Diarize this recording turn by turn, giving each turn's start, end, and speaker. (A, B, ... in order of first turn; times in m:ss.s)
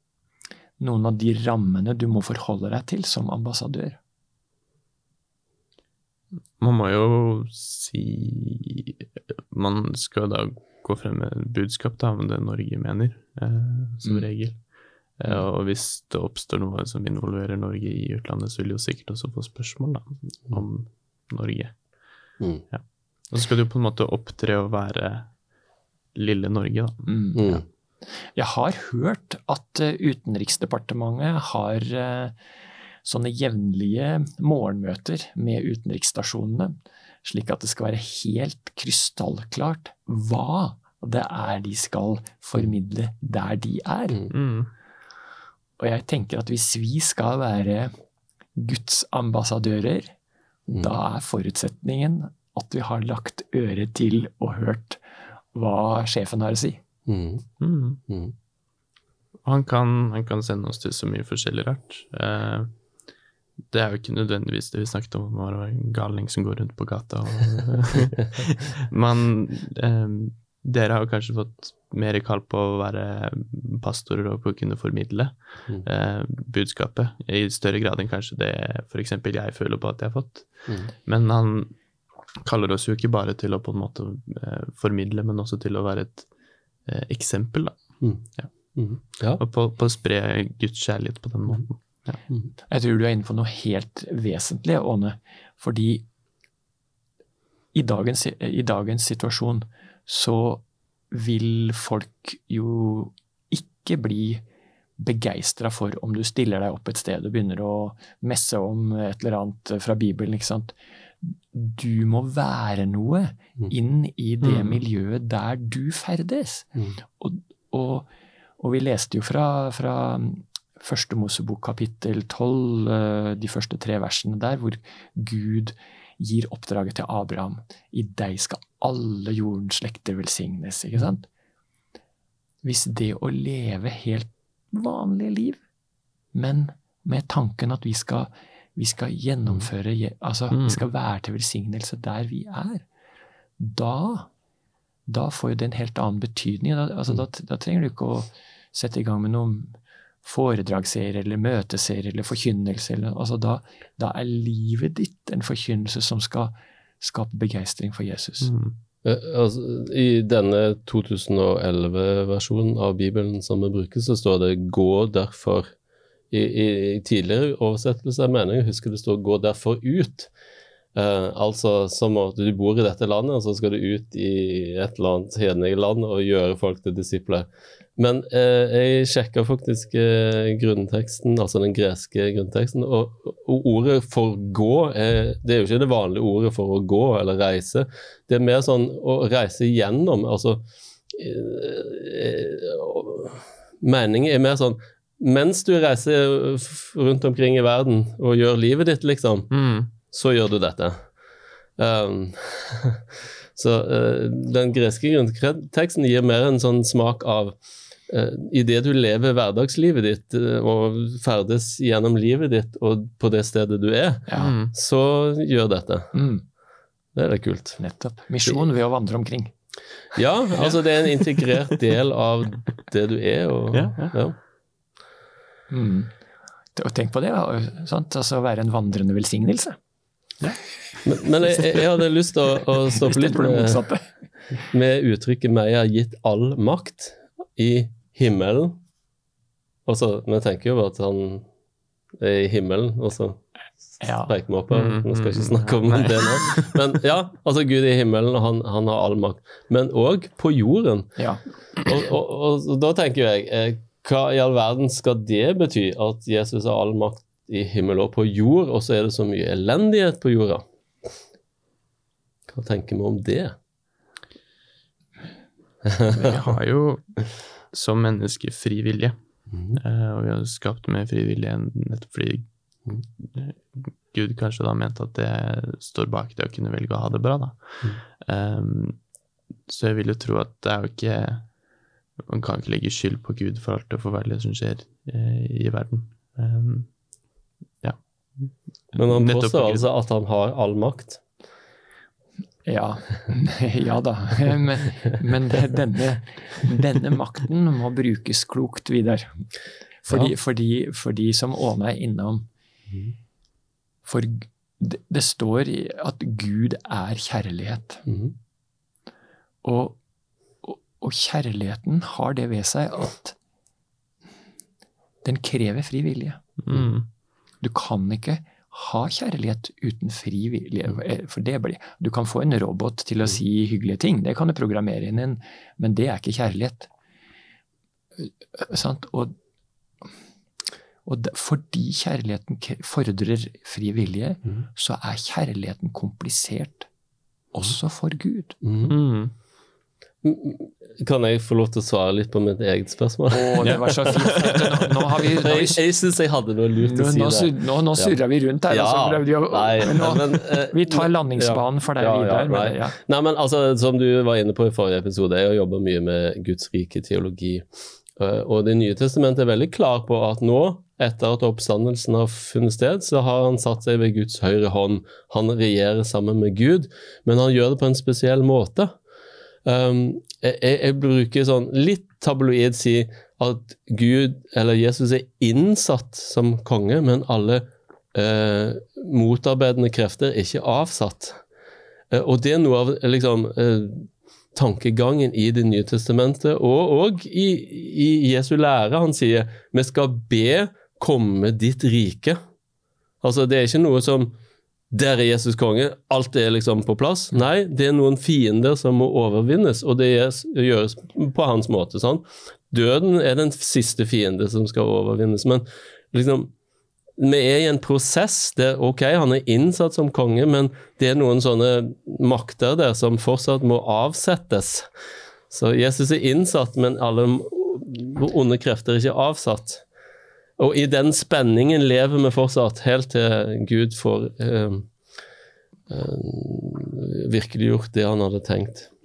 0:00.8-0:04.0 A
0:06.6-0:25.4 B
0:22.4-0:22.6 C
0:26.1-0:27.6 B
0:27.1-0:27.5 A
0:27.4-0:27.6 C
0:28.1-0:32.4 A
0:33.0-0:44.2 A
0:44.3-0:44.7 B
0:45.8-0:47.9 A
0:48.5-0:50.1 A
0:50.7-0:55.0 A
0:55.5-0:56.8 A
0:57.0-0:57.5 C
0:57.6-0:58.0 B
0:58.1-0:58.3 C
0:59.4-1:02.7 B
1:03.7-1:21.7 B
1:22.4-1:32.2 B
1:28.0-1:29.4 C
1:32.7-1:36.0 A
1:37.7-1:44.4 A
1:45.0-2:11.3 A
1:54.4-1:54.8 B
2:12.6-2:15.6 A
2:16.3-2:22.8 A
2:20.5-2:20.8 B
2:23.6-2:24.3 A
2:25.1-2:38.5 A
2:38.4-2:38.7 B
2:39.0-2:45.7 C
2:46.3-2:50.3 C
2:50.9-3:21.0 C
3:19.5-3:19.9 B
3:21.8-3:36.2 C
3:34.3-3:34.5 A
3:34.4-3:34.7 B
3:36.1-3:36.4 A
3:37.1-3:37.8 C
3:37.8-3:39.5 A
3:40.1-3:44.4 C
3:40.6-3:41.7 B
3:43.7-3:44.1 B
3:45.7-3:46.1 A
3:46.7-3:49.8 A
3:51.0-3:53.9 C
3:51.4-3:51.9 A
3:52.9-3:54.1 A
3:54.7-3:58.8 C
3:59.8-4:01.5 C
4:02.2-4:03.4 C
4:04.0-4:04.3 A
4:04.2-4:11.2 C
4:04.7-4:06.8 B
4:11.2-4:11.4 A
4:11.8-4:20.6 C
4:22.5-4:23.6 C
4:25.8-4:26.3 C
4:26.2-4:32.5 B
4:29.5-4:29.8 C
4:33.2-4:39.0 B
4:39.6-4:41.6 B
4:42.2-4:49.8 B
4:49.0-4:51.2 C
4:52.6-4:59.4 A
5:00.0-5:02.5 A
5:04.0-5:08.0 A
5:08.0-5:08.3 C
5:09.6-5:10.0 A
5:10.6-5:13.4 A
5:15.2-5:16.4 A
5:16.6-5:17.1 B
5:17.6-5:26.9 A
5:28.2-5:29.3 A
5:31.0-5:36.9 A
5:37.5-5:38.6 A
5:38.6-5:38.9 C
5:38.8-5:39.3 B
5:40.2-5:44.5 C
5:43.3-5:45.8 A
5:43.6-5:44.6 B
5:45.4-6:08.9 C
5:46.8-5:53.0 A
6:09.6-6:21.4 C
6:22.1-6:32.4 C
6:33.2-6:34.4 C
6:34.9-6:46.5 C
6:47.2-6:54.9 C
6:55.5-6:59.8 C
7:00.6-7:04.9 C
7:05.9-7:08.9 C